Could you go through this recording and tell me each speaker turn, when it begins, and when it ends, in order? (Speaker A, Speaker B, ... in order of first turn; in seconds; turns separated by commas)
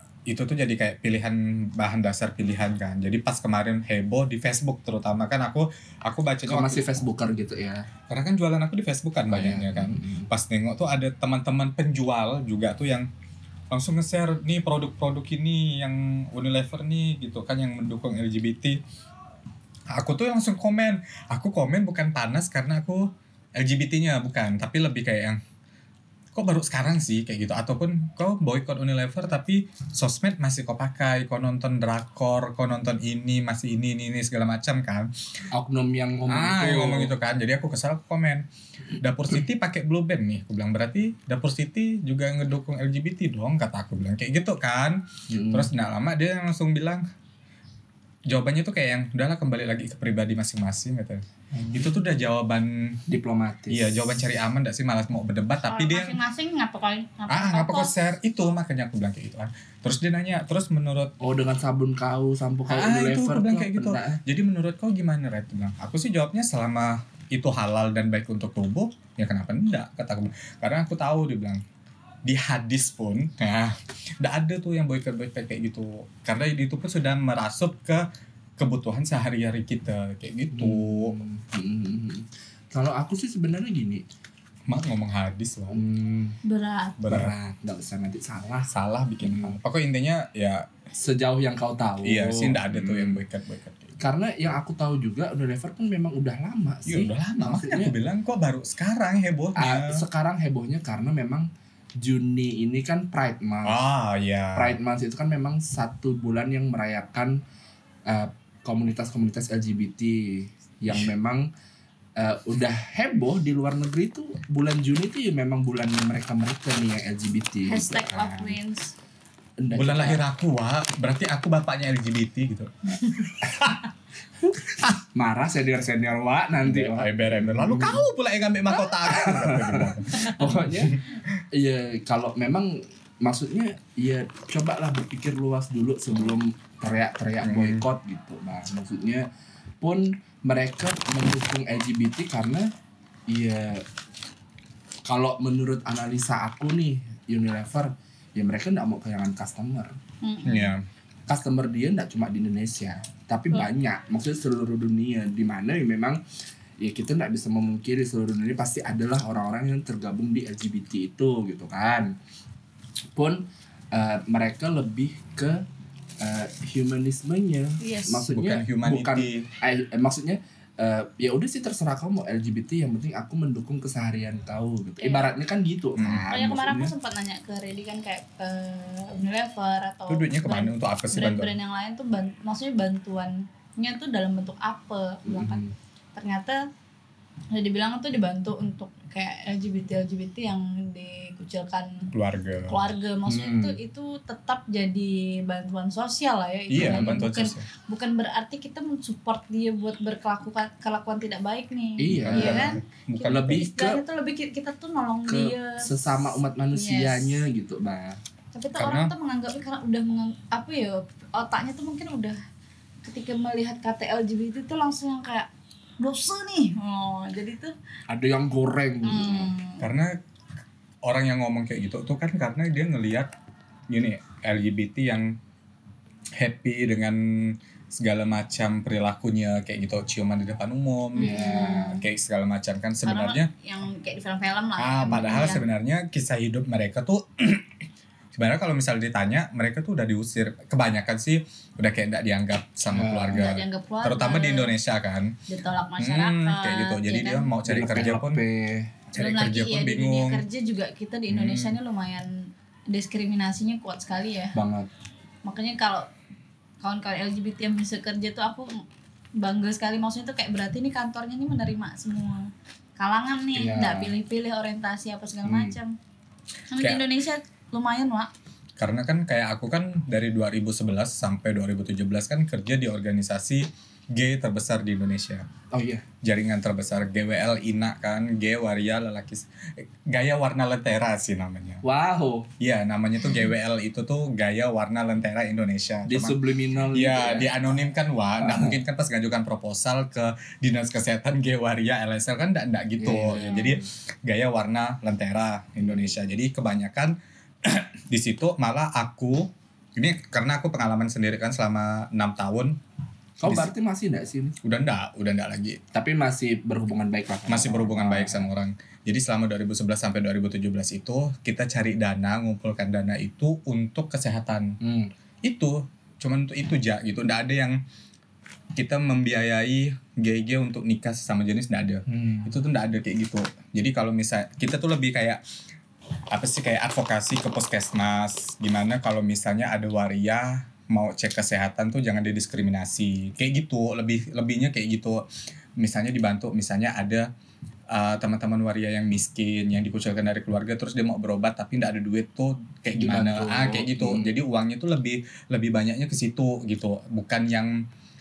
Speaker A: 0.3-6.9, Speaker B: 6.5-7.9, Speaker A: 8.1-13.1, Speaker B: 9.3-10.3, Speaker A: 13.7-18.8, Speaker A: 19.9-25.4, Speaker A: 26.3-35.1, Speaker B: 35.5-37.1, Speaker A: 36.3-38.5, Speaker A: 39.0-47.0, Speaker B: 45.3-45.7, Speaker A: 48.3-53.0, Speaker B: 51.5-51.9, Speaker B: 53.1-54.0, Speaker A: 53.7-56.2, Speaker C: 55.7-57.9, Speaker A: 57.3-61.1, Speaker B: 61.2-64.2, Speaker A: 62.7-71.6, Speaker A: 72.3-78.0, Speaker A: 78.6-81.2, Speaker B: 80.5-84.0, Speaker A: 84.7-85.8, Speaker B: 85.7-86.4, Speaker C: 86.4-87.0, Speaker A: 87.0-87.3, Speaker B: 87.0-88.7, Speaker A: 88.7-90.7, Speaker B: 89.2-89.6, Speaker B: 91.0-93.2, Speaker A: 92.0-94.0, Speaker B: 94.0-97.9, Speaker A: 96.9-100.0, Speaker B: 99.6-101.5, Speaker B: 102.0-103.8, Speaker A: 103.7-104.8, Speaker B: 104.5-107.4, Speaker B: 108.1-111.5, Speaker B: 112.2-118.6, Speaker C: 117.7-118.9, Speaker B: 119.6-120.2, Speaker A: 119.7-123.7, Speaker B: 124.5-128.1, Speaker A: 126.6-131.0, Speaker B: 128.7-131.0, Speaker B: 131.5-139.3, Speaker A: 137.4-137.8, Speaker B: 139.8-142.7, Speaker B: 143.3-143.8, Speaker B: 145.1-150.0, Speaker C: 150.2-150.7, Speaker A: 150.4-150.8, Speaker B: 151.3-156.2, Speaker B: 156.8-162.2, Speaker B: 163.2-165.7, Speaker B: 166.2-176.9, Speaker C: 167.8-168.2, Speaker A: 168.3-169.5, Speaker C: 175.0-175.3, Speaker A: 176.0-176.2, Speaker C: 176.3-185.6, Speaker A: 180.1-181.5, Speaker B: 185.3-185.8, Speaker C: 186.2-186.6, Speaker C: 187.5-192.1, Speaker A: 192.1-192.8, Speaker C: 192.7-207.4, Speaker B: 193.3-193.8, Speaker A: 196.7-197.6, Speaker B: 196.8-197.2, Speaker B: 202.0-204.0, Speaker A: 202.1-203.6, Speaker B: 205.3-208.2, Speaker C: 208.5-212.4, Speaker A: 208.8-209.1, Speaker C: 213.0-215.5, Speaker C: 216.0-217.8, Speaker B: 218.1-219.5, Speaker C: 219.0-219.9, Speaker A: 219.8-220.2, Speaker A: 221.0-223.3, Speaker A: 223.9-225.4, Speaker A: 226.4-233.5, Speaker C: 231.2-232.0, Speaker B: 231.2-232.0, Speaker C: 233.0-235.6, Speaker A: 234.8-237.7, Speaker B: 235.1-235.6, Speaker A: 238.3-245.4, Speaker B: 242.9-243.5, Speaker C: 243.3-244.7, Speaker C: 245.5-247.5, Speaker A: 246.0-248.4, Speaker B: 247.7-249.0, Speaker A: 249.1-250.4, Speaker C: 249.2-254.6, Speaker A: 251.3-251.8, Speaker B: 254.5-254.9, Speaker C: 255.4-256.1, Speaker C: 256.8-258.8, Speaker C: 259.4-266.0, Speaker B: 263.5-264.2, Speaker A: 265.5-265.8, Speaker C: 266.7-268.3, Speaker A: 266.8-267.0, Speaker A: 268.8-275.5, Speaker B: 275.7-276.1, Speaker A: 276.2-281.8, Speaker B: 281.8-282.5, Speaker A: 282.6-286.4, Speaker B: 286.1-287.6, Speaker A: 286.9-302.8, Speaker B: 288.4-288.8, Speaker B: 293.0-293.9, Speaker C: 293.3-293.7, Speaker B: 303.4-304.6, Speaker A: 303.4-303.7, Speaker A: 304.6-305.8, Speaker B: 305.9-308.5, Speaker A: 307.5-314.8, Speaker B: 314.8-315.1, Speaker A: 315.4-317.8, Speaker A: 318.8-325.4, Speaker B: 322.1-322.5, Speaker A: 326.3-335.2, Speaker A: 335.8-337.3, Speaker A: 337.9-347.8, Speaker B: 343.0-344.3